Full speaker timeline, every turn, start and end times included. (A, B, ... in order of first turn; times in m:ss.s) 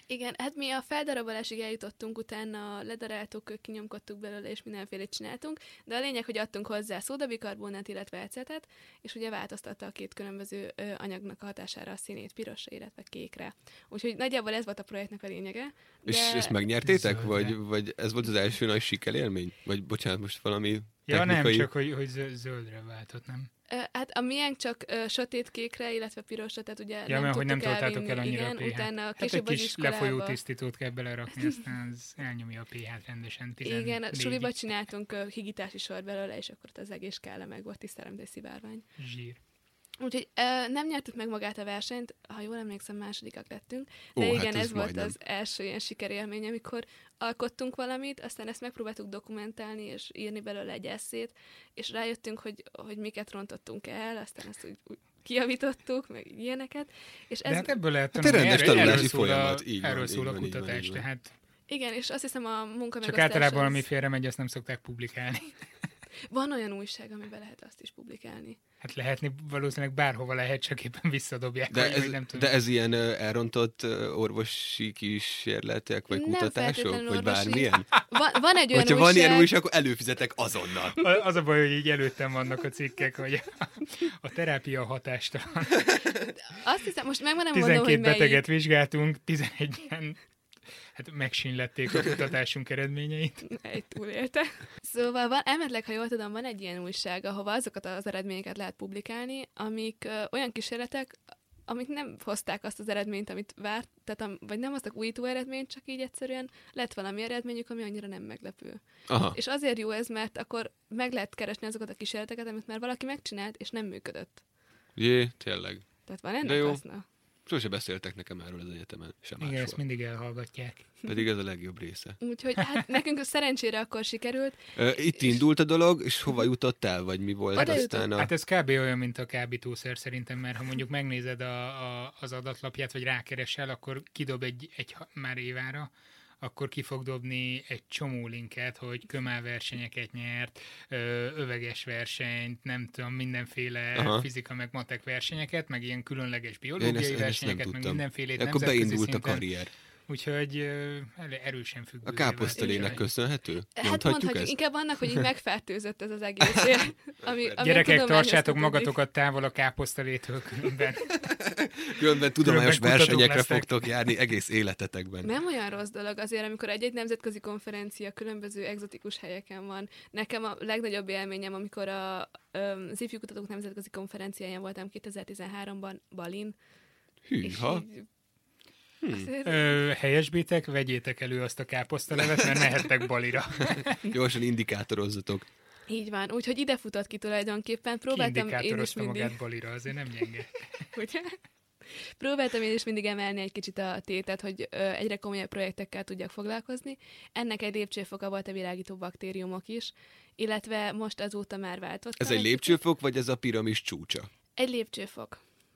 0:00.1-0:16.6 A
0:16.1-0:21.7 B
0:16.8-0:17.6 C
0:21.1-0:23.5 C
0:23.7-0:30.4 A
0:27.1-0:34.6 C
0:33.6-0:38.8 A
0:39.0-0:39.4 C
0:40.0-0:57.8 A
0:44.2-0:45.2 B
0:57.5-1:01.3 C
0:58.2-1:01.0 B
1:01.7-1:03.8 A
1:03.0-1:05.6 C
1:06.3-1:08.6 A
1:08.8-1:12.5 C
1:11.7-1:17.9 B
1:16.1-1:19.5 A
1:18.7-1:21.0 B
1:21.0-1:25.9 C
1:26.5-1:28.4 A
1:27.5-1:30.2 C
1:31.0-1:33.5 C
1:33.5-1:54.4 A
1:49.1-1:49.4 B
1:55.0-1:55.9 B
1:56.1-1:57.0 A
1:56.4-1:56.8 B
1:57.5-1:59.8 B
1:59.4-2:00.9 C
2:01.1-2:02.2 B
2:02.2-2:05.4 A
2:04.8-2:08.3 B
2:07.6-2:08.0 A
2:07.6-2:15.9 C
2:16.4-2:29.5 C
2:24.0-2:24.3 B
2:26.8-2:29.7 B
2:30.1-2:33.0 C
2:32.0-2:34.6 B
2:32.6-2:33.0 A
2:33.8-2:38.9 A
2:37.2-2:37.6 B
2:37.6-2:41.4 C
2:41.4-2:45.3 B
2:42.4-2:43.8 C
2:45.2-2:56.6 A
2:57.3-2:57.8 B
2:57.4-2:58.1 A
2:59.0-2:59.3 B
2:59.1-2:59.8 A
2:59.4-3:04.0 C
3:03.8-3:05.5 B
3:05.9-3:09.4 A
3:08.1-3:10.6 C
3:10.9-3:11.4 A
3:11.9-3:22.8 A
3:22.2-3:24.3 B
3:24.6-3:25.4 A